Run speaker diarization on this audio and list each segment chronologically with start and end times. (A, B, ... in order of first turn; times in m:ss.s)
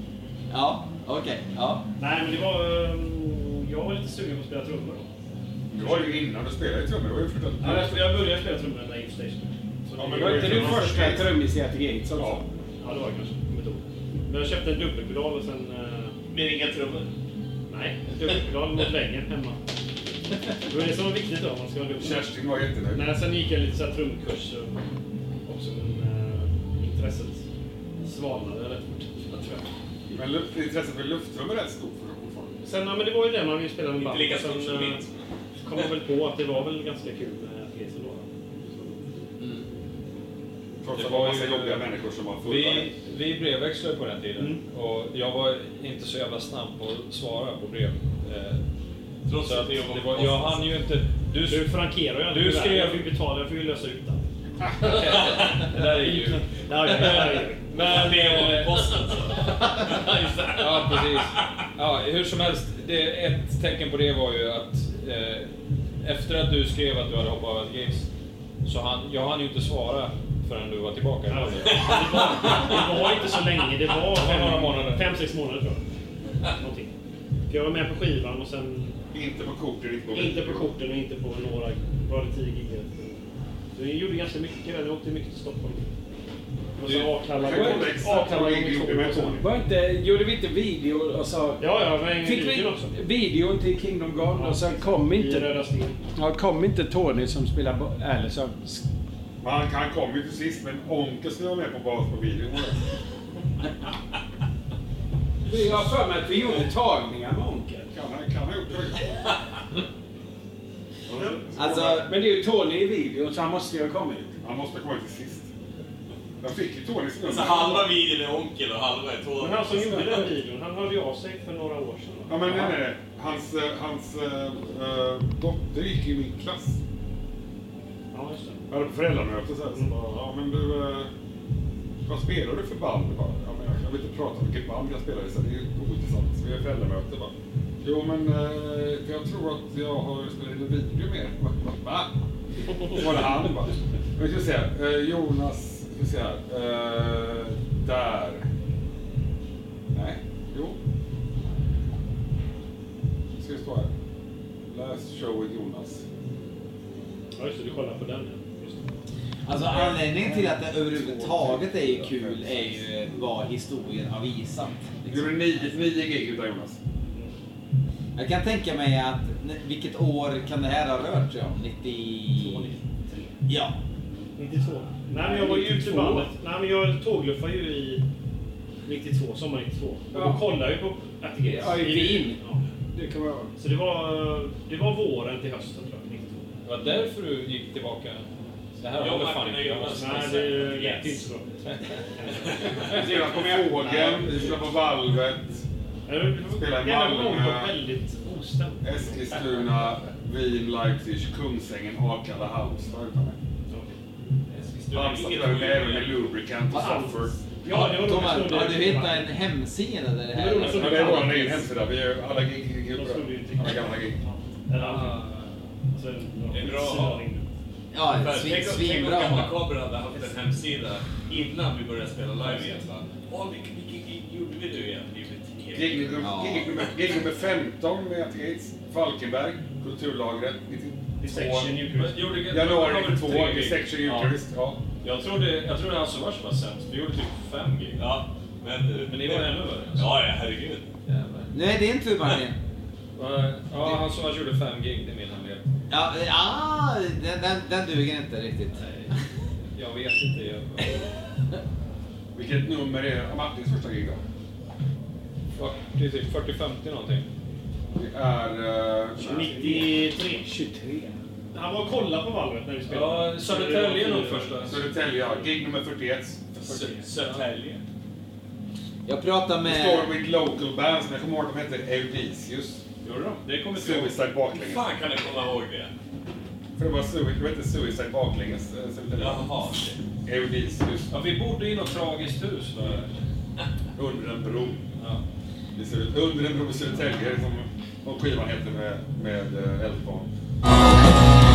0:00.5-0:01.8 A
0:02.0-0:05.1 B
0:05.7-0:08.2 C
0:05.8-0:06.1 B
0:07.6-0:11.1 B
0:10.0-0:11.3 C
0:10.2-0:12.4 D
0:12.1-0:12.4 C
0:12.8-0:16.2 B
0:16.3-0:17.0 E
0:17.7-0:19.6 B
0:20.7-0:22.3 B
0:22.0-0:23.1 C
0:22.9-0:24.8 B
0:25.4-0:27.4 B
0:28.0-0:29.7 B
0:30.1-0:32.6 C
0:32.6-0:35.0 B
0:33.9-0:35.1 E
0:35.6-0:39.0 B
0:40.8-0:42.9 C
0:40.9-0:48.6 F
0:49.2-0:50.7 E
0:49.4-0:51.7 F
0:51.4-0:54.2 B
0:52.2-0:53.1 F
0:54.8-0:58.8 F
0:54.8-0:55.1 B
0:56.0-0:58.5 B
0:56.9-1:01.3 E
1:00.6-1:05.5 F
1:06.0-1:08.1 F
1:08.6-1:12.2 F
1:11.3-1:15.8 B
1:11.6-1:13.4 E
1:12.7-1:13.0 F
1:14.0-1:15.0 F
1:16.6-1:16.9 B
1:17.5-1:19.0 B
1:19.1-1:20.7 C
1:20.1-1:23.2 B
1:23.7-1:25.9 B
1:26.8-1:29.4 B
1:27.4-1:29.4 C
1:27.5-1:27.9 D
1:29.4-1:35.5 D
1:31.6-1:32.9 B
1:34.3-1:36.0 B
1:36.1-1:38.8 D
1:39.4-1:42.8 C
1:45.5-1:47.9 D
1:47.9-1:49.0 C
1:51.1-1:52.1 C
1:51.1-1:51.4 B
1:51.5-1:52.1 A
1:52.0-1:54.3 D
1:54.4-1:55.5 C
1:56.4-1:57.9 C
1:57.2-2:00.3 E
1:59.4-2:02.9 B
2:02.3-2:06.8 C
2:08.1-2:08.6 B
2:08.7-2:11.1 C
2:12.0-2:22.1 C
2:22.9-2:28.5 C
2:29.9-2:30.8 C
2:33.4-2:33.9 C
2:34.7-2:36.0 C
2:37.4-2:38.9 B
2:39.4-2:45.7 A
2:39.7-2:40.3 C
2:41.0-2:42.6 C
2:45.0-2:46.8 C
2:48.2-2:52.7 A
2:52.3-2:53.3 B
2:53.5-2:53.8 A
2:54.4-2:58.0 B
2:55.2-2:56.3 D
2:58.8-3:02.6 B
3:00.1-3:00.4 D
3:01.5-3:02.4 D
3:02.9-3:03.5 D
3:03.6-3:06.5 B
3:06.6-3:08.2 F
3:08.8-3:10.1 F
3:08.9-3:11.2 E
3:09.9-3:13.2 B
3:12.9-3:14.4 D
3:12.9-3:15.6 C
3:13.2-3:13.5 E
3:13.8-3:14.3 F
3:16.1-3:20.0 B
3:16.4-3:17.7 C
3:18.8-3:23.4 C
3:23.7-3:24.0 B
3:24.5-3:26.5 E
3:24.9-3:27.7 C
3:26.6-3:29.3 B
3:27.7-3:31.5 A
3:30.3-3:31.7 B
3:30.6-3:34.2 C
3:32.9-3:37.5 B
3:36.5-3:37.2 E
3:37.9-3:39.7 A
3:38.0-3:47.0 E
3:45.7-3:51.8 C
3:46.2-3:46.7 A
3:51.2-3:52.3 B
3:51.8-3:54.4 F
3:52.5-3:54.8 C
3:55.0-3:58.0 F
3:58.0-4:00.9 E
3:59.0-4:00.1 F
4:01.5-4:02.6 A
4:03.2-4:05.6 F
4:05.9-4:08.8 A
4:09.7-4:10.9 F
4:12.3-4:14.2 C
4:15.6-4:17.3 F
4:17.9-4:19.6 C
4:19.2-4:20.4 B
4:19.3-4:21.1 D
4:21.5-4:25.5 B
4:22.9-4:24.8 F
4:24.6-4:26.8 C
4:26.6-4:27.8 F
4:29.0-4:30.2 A
4:29.6-4:32.8 C
4:33.0-4:34.2 F
4:33.7-4:34.9 C
4:34.5-4:35.9 E
4:36.8-4:39.5 C
4:39.2-4:40.0 E
4:40.2-4:41.1 C
4:41.1-4:43.1 F
4:44.0-4:44.8 C
4:45.7-4:50.3 C